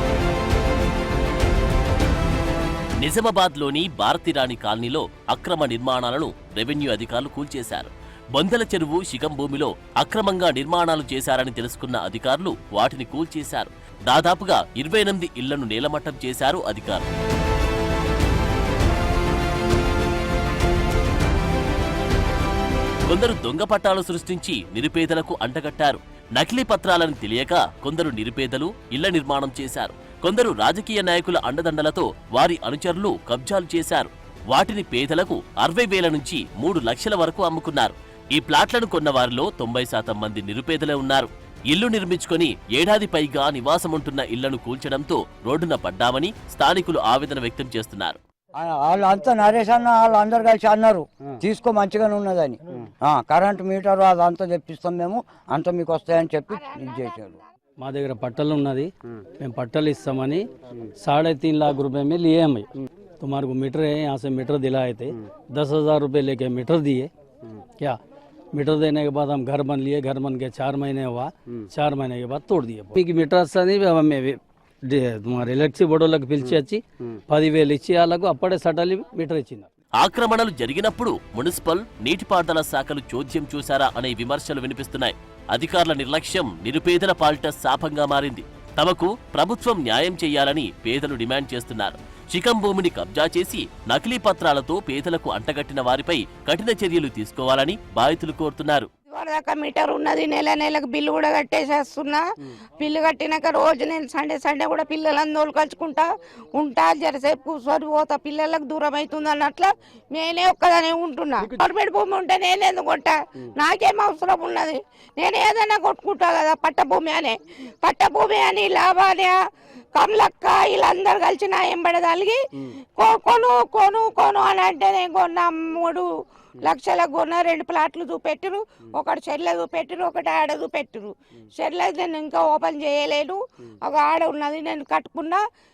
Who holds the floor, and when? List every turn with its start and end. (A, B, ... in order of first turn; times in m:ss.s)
0:03.0-0:17.0 A
0:23.1-0:48.2 A
0:48.6-0:57.4 B
0:56.5-0:57.4 C
0:57.8-1:00.5 D
1:01.0-1:07.1 D
1:08.5-1:19.7 D
1:20.0-1:38.9 A
1:39.1-1:42.2 C
1:42.8-1:59.4 C
1:59.9-2:06.1 C
2:06.6-2:15.4 C